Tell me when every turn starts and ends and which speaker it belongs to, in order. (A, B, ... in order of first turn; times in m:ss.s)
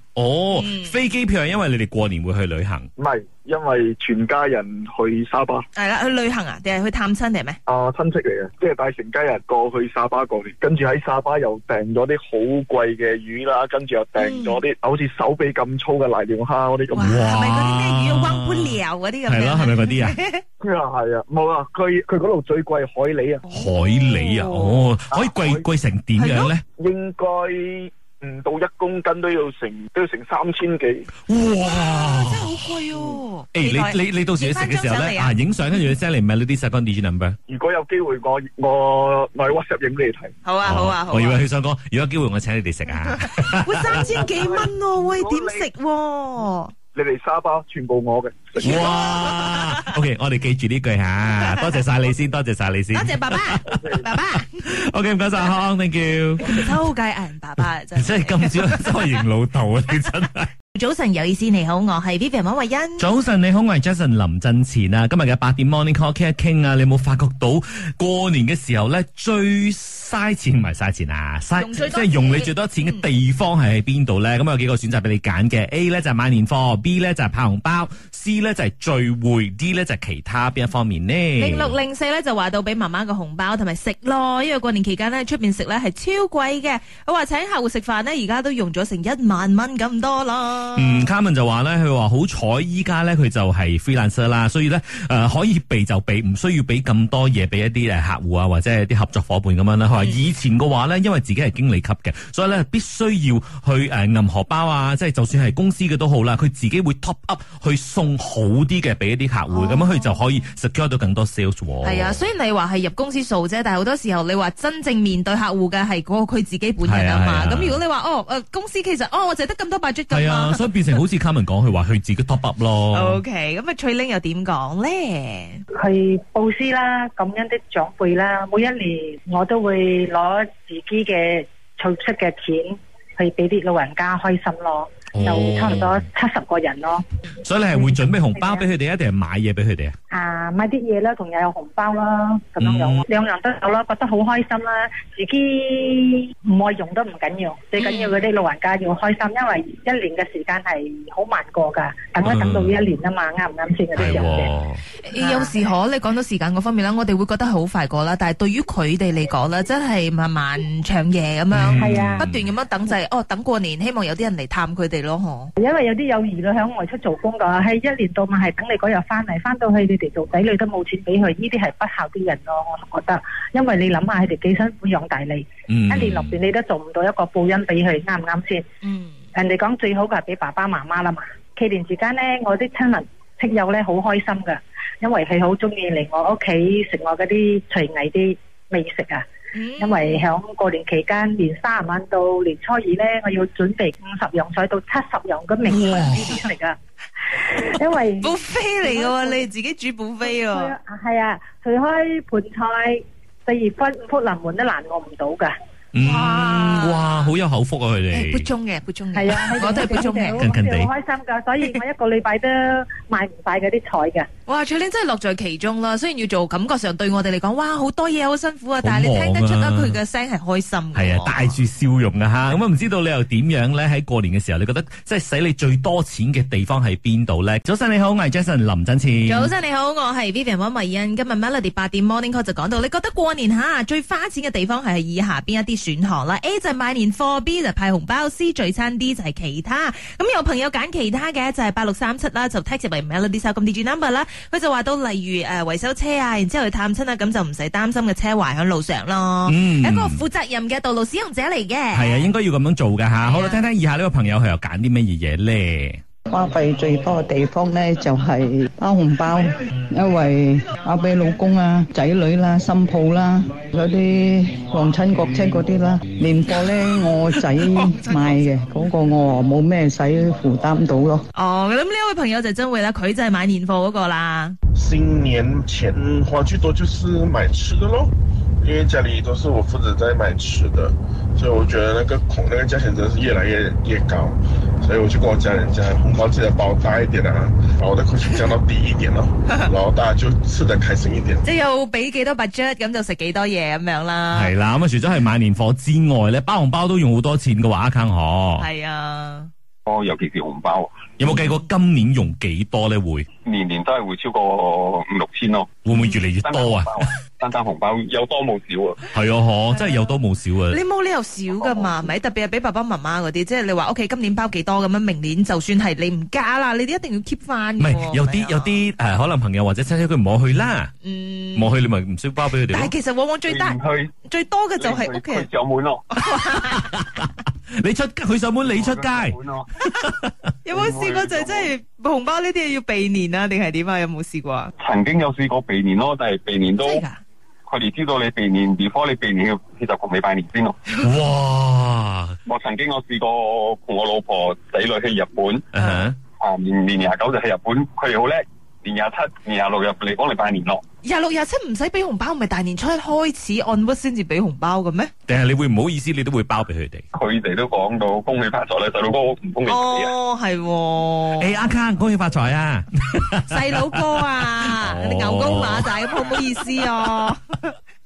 0:00.1-0:02.9 A
0:00.5-0:00.9 B
0:03.0-0:05.6 C
0:05.7-0:07.6 B
0:07.7-0:17.2 C
0:14.2-0:14.6 B
0:16.9-0:20.4 B
0:17.0-0:20.2 A
0:20.6-0:23.4 C
0:23.5-0:26.6 A
0:23.5-0:24.8 B
0:25.1-0:25.6 C
0:26.2-0:26.5 B
0:26.8-0:31.0 C
0:31.3-0:32.6 A
0:31.7-0:35.3 B
0:33.5-0:37.4 A
0:37.5-0:40.3 C
0:40.4-0:41.4 B
0:40.6-0:44.0 A
0:43.4-0:46.7 B
0:44.1-0:45.7 C
0:46.9-0:49.4 C
0:48.6-0:56.8 A
0:48.6-0:49.2 B
0:52.9-0:54.5 B
0:56.5-0:59.1 B
0:57.9-1:00.5 A
1:00.7-1:03.0 B
1:03.0-1:21.8 A
1:11.6-1:13.0 B
1:21.4-1:31.0 B
1:30.8-1:52.2 A
1:49.5-1:50.3 B
1:51.8-2:00.6 B
1:56.8-1:57.8 A
2:00.1-2:03.2 A
2:02.9-2:05.6 B
2:05.8-2:17.0 D
2:15.1-2:16.0 A
2:17.4-2:19.9 A
2:17.8-2:18.7 D
2:20.1-2:34.5 D
2:22.6-2:23.0 A
2:27.8-2:28.2 B
2:32.2-2:32.8 A
2:33.9-2:34.8 A
2:35.0-2:45.5 B
2:35.2-2:35.5 D
2:41.5-2:42.5 A
2:41.7-2:42.3 D
2:45.6-2:58.6 D
2:55.7-2:56.4 A
2:58.8-2:59.2 B
2:59.3-3:09.2 D
3:09.5-3:10.3 B
3:09.8-3:16.7 D
3:15.6-3:16.3 A
3:17.6-3:19.4 D
3:18.2-3:20.7 B
3:20.2-3:25.5 D
3:25.9-3:28.5 A
3:26.0-3:27.2 B
3:28.1-3:30.4 B
3:29.1-3:34.3 D
3:29.8-3:30.9 A
3:34.5-3:41.6 B
3:38.8-3:40.0 A
3:40.9-3:49.5 A
3:49.2-4:12.3 B
4:09.4-4:10.2 A
4:11.9-4:16.0 A
4:13.2-4:13.6 B
4:16.3-4:31.2 E
4:27.6-4:28.5 B
4:31.3-4:34.6 B
4:34.7-4:51.4 F
4:51.4-4:54.5 B
4:54.3-4:58.6 A
4:58.6-4:59.5 B
4:59.8-5:01.1 G
5:01.2-5:03.3 A
5:01.3-5:01.6 B
5:03.4-5:05.7 G
5:05.8-5:07.1 A
5:05.9-5:06.2 B
5:06.4-5:09.0 G
5:09.1-5:10.8 A
5:10.7-5:18.8 B
5:11.5-5:12.1 G
5:17.8-5:20.9 A
5:21.0-5:21.7 B
5:21.5-5:22.9 A
5:22.6-5:25.5 B
5:23.5-5:24.1 G
5:24.8-5:26.1 G
5:26.1-5:26.8 B
5:26.6-5:29.4 A
5:28.6-5:29.7 G
5:30.0-5:30.3 A
5:30.6-5:34.7 B
5:30.7-5:31.7 G
5:34.8-5:37.0 G
5:36.8-5:37.2 B
5:37.7-5:40.8 G
5:41.0-5:42.4 A
5:42.5-5:45.6 G
5:45.7-5:46.2 A
5:45.8-5:46.0 B
5:46.4-5:50.8 G
5:51.0-5:55.1 B
5:55.3-5:57.0 A
5:57.1-6:00.1 G
5:59.6-6:01.5 B
6:01.4-6:05.9 A
6:03.5-6:07.6 B